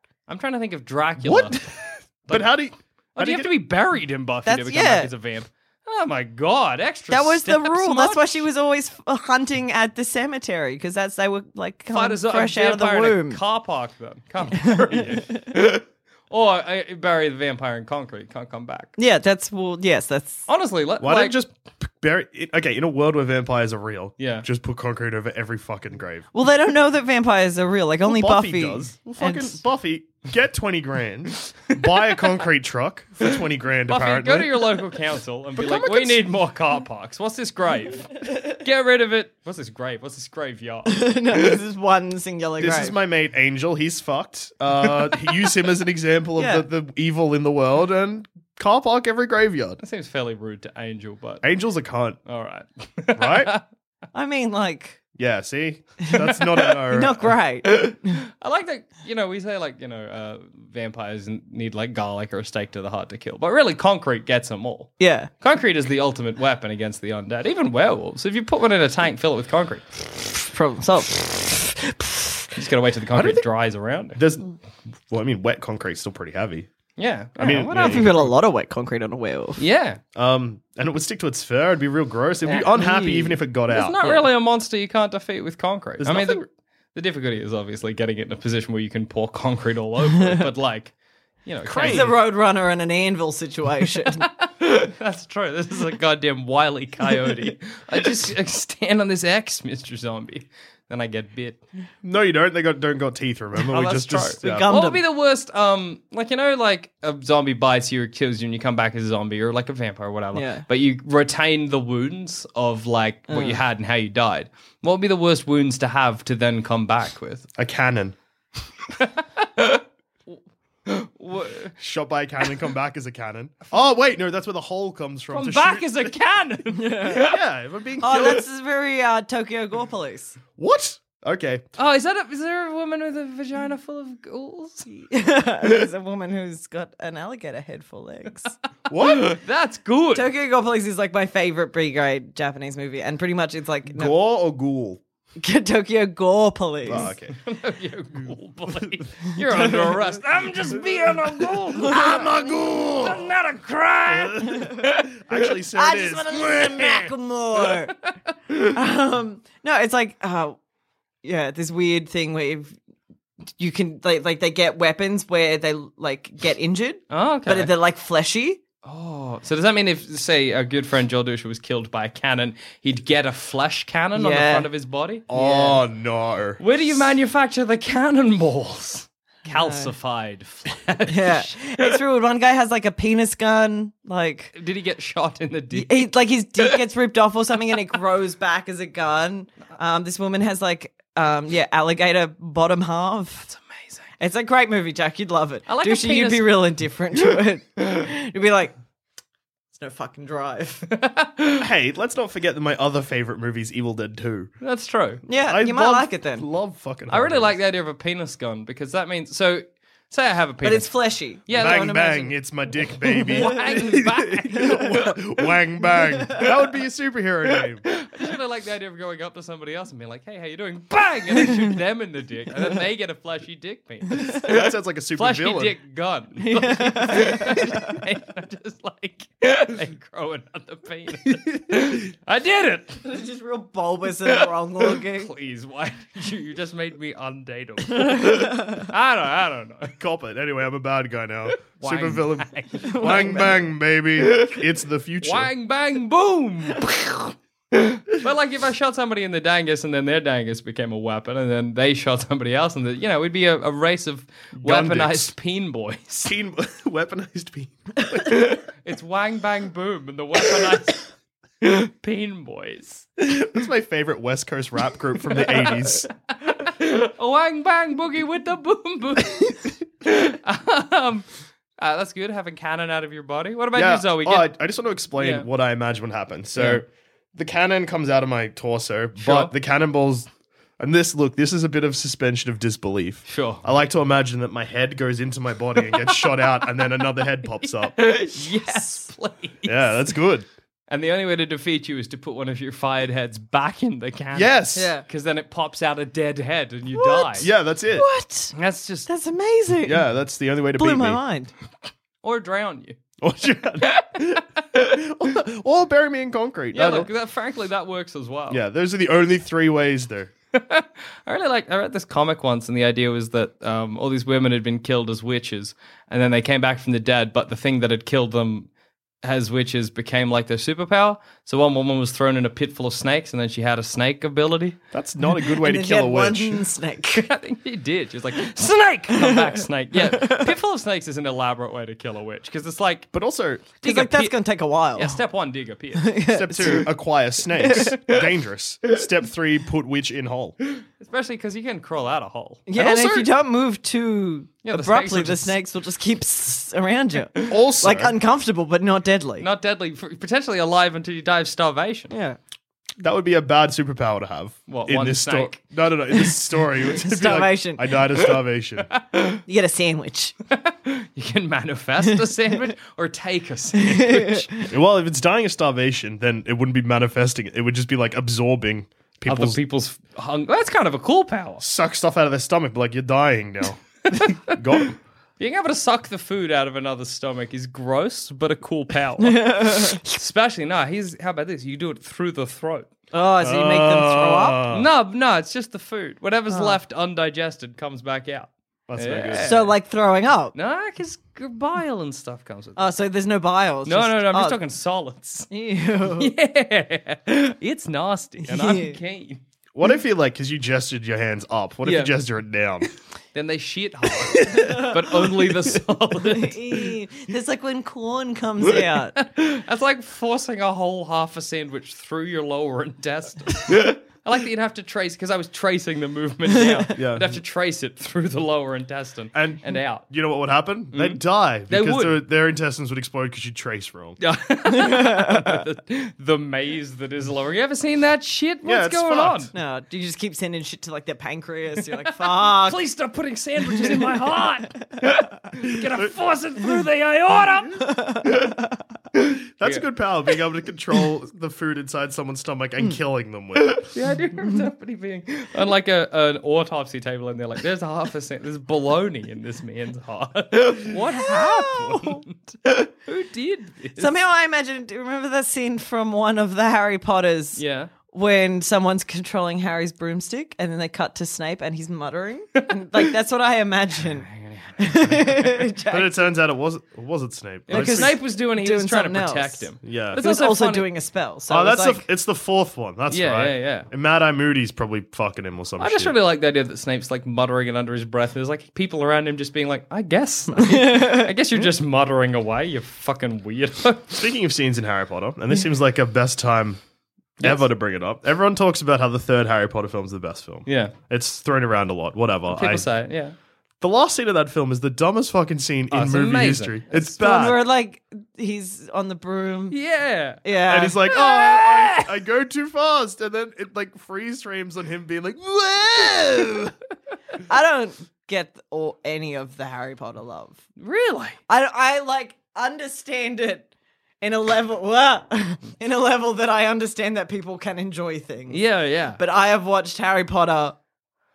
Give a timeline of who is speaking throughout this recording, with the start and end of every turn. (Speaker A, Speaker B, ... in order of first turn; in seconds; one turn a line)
Speaker A: 0.3-1.6
Speaker B: 1.2-3.5
Speaker A: 2.2-2.5
Speaker A: 3.1-8.4
Speaker C: 4.4-5.1
Speaker C: 7.1-13.4
Speaker A: 11.9-18.9
Speaker C: 14.5-15.1
Speaker C: 19.0-20.4
Speaker A: 20.5-21.4
Speaker B: 21.0-26.2
Speaker A: 24.2-24.4
Speaker C: 26.3-29.6
Speaker B: 28.0-34.7
Speaker A: 33.9-41.0
Speaker B: 35.6-36.2
Speaker C: 40.9-42.9
Speaker B: 42.6-49.8
Speaker C: 46.4-46.6
Speaker A: 49.8-51.4
Speaker B: 51.4-52.2
Speaker A: 52.2-53.6
Speaker B: 53.1-53.5
Speaker C: 54.1-55.0
Speaker B: 55.2-57.3
Speaker C: 56.9-58.1
Speaker A: 58.4-69.8
Speaker C: 65.0-65.3
Speaker C: 70.4-72.4
Speaker A: 72.5-74.2
Speaker B: 73.1-73.4
Speaker B: 74.1-74.5
Speaker B: 75.1-76.7
Speaker A: 77.0-78.2
Speaker B: 77.4-78.1
Speaker C: 77.8-79.6
Speaker A: 79.6-80.0
Speaker B: 80.1-84.2
Speaker A: 82.5-86.4
Speaker C: 82.8-83.3
Speaker B: 86.0-86.5
Speaker A: 86.9-90.9
Speaker A: 91.5-92.0
Speaker B: 91.6-92.1
Speaker C: 91.8-94.2
Speaker A: 94.2-101.6
Speaker B: 102.0-104.7
Speaker A: 103.7-117.5
Speaker C: 103.7-105.0
Speaker C: 110.3-110.6
Speaker C: 113.3-113.6
Speaker B: 117.6-118.2
Speaker A: 119.0-121.7
Speaker B: 121.8-126.1
Speaker A: 125.3-127.3
Speaker C: 126.8-127.2
Speaker B: 127.2-128.4
Speaker C: 128.0-130.4
Speaker B: 130.6-131.6
Speaker A: 131.8-134.9
Speaker C: 134.9-138.5
Speaker B: 138.9-139.4
Speaker A: 138.9-140.3
Speaker C: 140.1-144.1
Speaker B: 143.9-145.0
Speaker C: 145.4-147.1
Speaker B: 146.8-147.4
Speaker A: 147.0-155.4
Speaker B: 151.8-153.3
Speaker B: 154.1-157.1
Speaker C: 155.7-157.9
Speaker A: 158.1-158.6
Speaker C: 158.7-160.6
Speaker C: 161.2-162.8
Speaker C: 163.6-168.6
Speaker A: 167.1-167.7
Speaker A: 168.8-175.2
Speaker C: 174.1-174.7
Speaker B: 175.3-176.6
Speaker C: 175.3-175.8
Speaker A: 176.6-181.8
Speaker C: 179.5-179.9
Speaker C: 181.1-184.5
Speaker A: 184.6-186.1
Speaker C: 185.7-193.5
Speaker A: 193.5-194.1
Speaker C: 194.2-198.8
Speaker A: 195.7-196.7
Speaker C: 199.7-200.8
Speaker A: 200.9-201.6
Speaker B: 201.6-204.5
Speaker A: 204.6-205.2
Speaker C: 205.3-206.4
Speaker B: 205.4-207.6
Speaker A: 207.1-210.9
Speaker C: 210.6-212.3
Speaker A: 211.5-212.0
Speaker B: 211.5-217.9
Speaker A: 213.3-214.9
Speaker A: 217.9-224.6
Speaker B: 224.2-225.7
Speaker A: 225.1-233.0
Speaker C: 226.4-227.9
Speaker C: 233.0-235.3
Speaker A: 234.9-239.9
Speaker B: 240.0-245.5
Speaker A: 241.8-243.4
Speaker C: 242.8-243.6
Speaker A: 245.2-256.3
Speaker B: 254.6-255.3
Speaker B: 256.2-258.5
Speaker A: 258.7-261.0
Speaker A: 261.6-263.1
Speaker B: 263.2-266.1
Speaker A: 265.4-274.5
Speaker B: 273.7-280.3
Speaker A: 275.1-275.5
Speaker A: 276.6-276.8
Speaker A: 279.2-279.5
Speaker B: 280.8-287.9
Speaker A: 283.3-283.6
Speaker A: 285.8-287.0
Speaker A: 287.6-290.1
Speaker C: 288.6-288.9
Speaker B: 289.6-290.4
Speaker A: 290.9-297.5
Speaker B: 294.4-294.9
Speaker C: 294.8-295.0
Speaker C: 297.0-298.5
Speaker B: 297.4-298.0
Speaker A: 298.5-299.1
Speaker C: 299.1-300.0
Speaker B: 299.9-301.2
Speaker C: 300.8-301.5
Speaker A: 302.2-303.0
Speaker B: 303.2-307.1
Speaker A: 306.7-308.6
Speaker B: 308.5-310.3
Speaker A: 310.5-318.7
Speaker A: 319.2-324.8
Speaker B: 324.9-326.6
Speaker C: 325.6-327.3
Speaker A: 327.1-333.1
Speaker C: 330.1-330.5
Speaker B: 333.1-333.7
Speaker A: 333.8-334.3
Speaker C: 333.8-335.2
Speaker A: 334.9-336.2
Speaker C: 336.0-336.9
Speaker B: 336.3-340.6
Speaker C: 337.6-338.0
Speaker A: 341.0-342.6
Speaker C: 342.7-349.4
Speaker B: 342.8-343.3
Speaker A: 344.6-345.6
Speaker B: 347.5-348.1
Speaker A: 349.4-352.1
Speaker C: 352.1-352.4
Speaker B: 353.0-358.9
Speaker A: 354.7-355.6
Speaker C: 356.9-357.9
Speaker A: 359.0-359.4
Speaker C: 359.5-360.3
Speaker A: 360.5-364.5
Speaker C: 363.8-364.6
Speaker B: 364.7-369.6
Speaker A: 369.3-371.6
Speaker B: 371.6-375.0
Speaker A: 375.4-382.9
Speaker C: 379.2-380.0
Speaker C: 383.1-384.6
Speaker B: 383.4-384.9
Speaker A: 384.7-389.7
Speaker C: 386.5-386.8
Speaker B: 388.9-389.6
Speaker C: 389.4-390.5
Speaker A: 390.5-392.9
Speaker C: 392.8-394.6
Speaker A: 393.9-395.5
Speaker C: 395.5-396.3
Speaker A: 396.0-399.4
Speaker C: 398.4-399.0
Speaker B: 399.8-402.9
Speaker A: 401.8-402.1
Speaker A: 403.3-406.9
Speaker C: 404.4-405.2
Speaker C: 406.3-409.1
Speaker A: 409.1-420.1
Speaker B: 416.9-417.3
Speaker B: 419.3-424.2
Speaker A: 420.9-422.2
Speaker A: 424.2-429.5
Speaker C: 424.7-425.6
Speaker B: 428.6-429.5
Speaker C: 429.5-432.8
Speaker A: 432.2-438.3
Speaker C: 437.9-438.5
Speaker B: 439.6-443.9
Speaker A: 443.8-454.1
Speaker C: 451.1-452.2
Speaker C: 454.0-464.3
Speaker A: 457.6-457.9
Speaker A: 464.3-465.6
Speaker C: 464.8-466.2
Speaker B: 465.9-468.2
Speaker A: 467.7-470.9
Speaker C: 467.7-472.0
Speaker B: 469.8-470.2
Speaker B: 471.5-476.1
Speaker A: 473.1-473.9
Speaker A: 475.8-484.2
Speaker C: 480.5-481.3
Speaker B: 484.2-486.8
Speaker B: 487.4-492.9
Speaker A: 490.6-490.9
Speaker A: 492.5-493.4
Speaker B: 493.8-497.6
Speaker A: 495.9-497.1
Speaker C: 497.2-499.8
Speaker A: 499.7-500.4
Speaker C: 500.4-501.0
Speaker B: 500.7-506.7
Speaker A: 501.0-502.1
Speaker C: 507.5-510.6
Speaker A: 510.8-511.4
Speaker C: 511.5-513.7
Speaker C: 514.2-518.6
Speaker A: 518.5-519.2
Speaker C: 519.1-520.8